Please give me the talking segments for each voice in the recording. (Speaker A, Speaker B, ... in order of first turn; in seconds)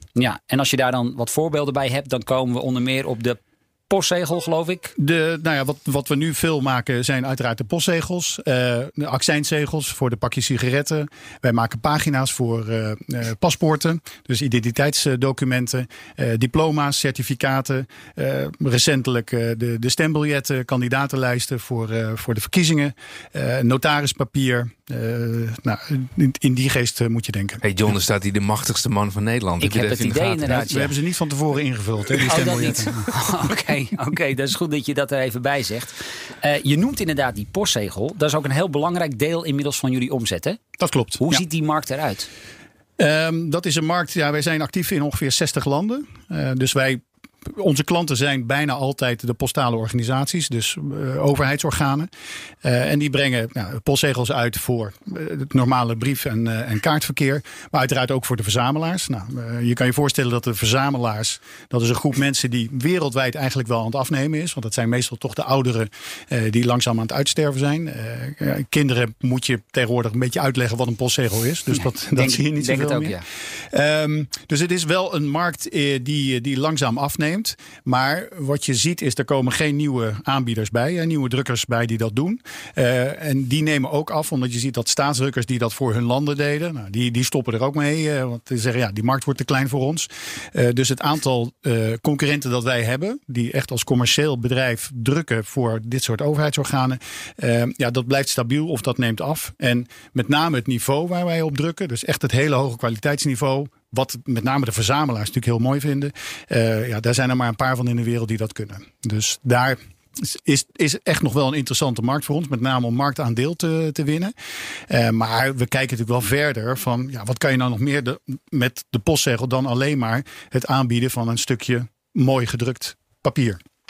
Speaker A: 0.1-4.9, 29.6-30.9, 32.3-40.6, 41.2-42.3, 72.1-73.2
Speaker B: 5.0-27.6, 30.4-33.0, 40.8-41.4, 43.0-52.1, 52.6-114.3, 114.9-123.6
Speaker C: 27.6-30.6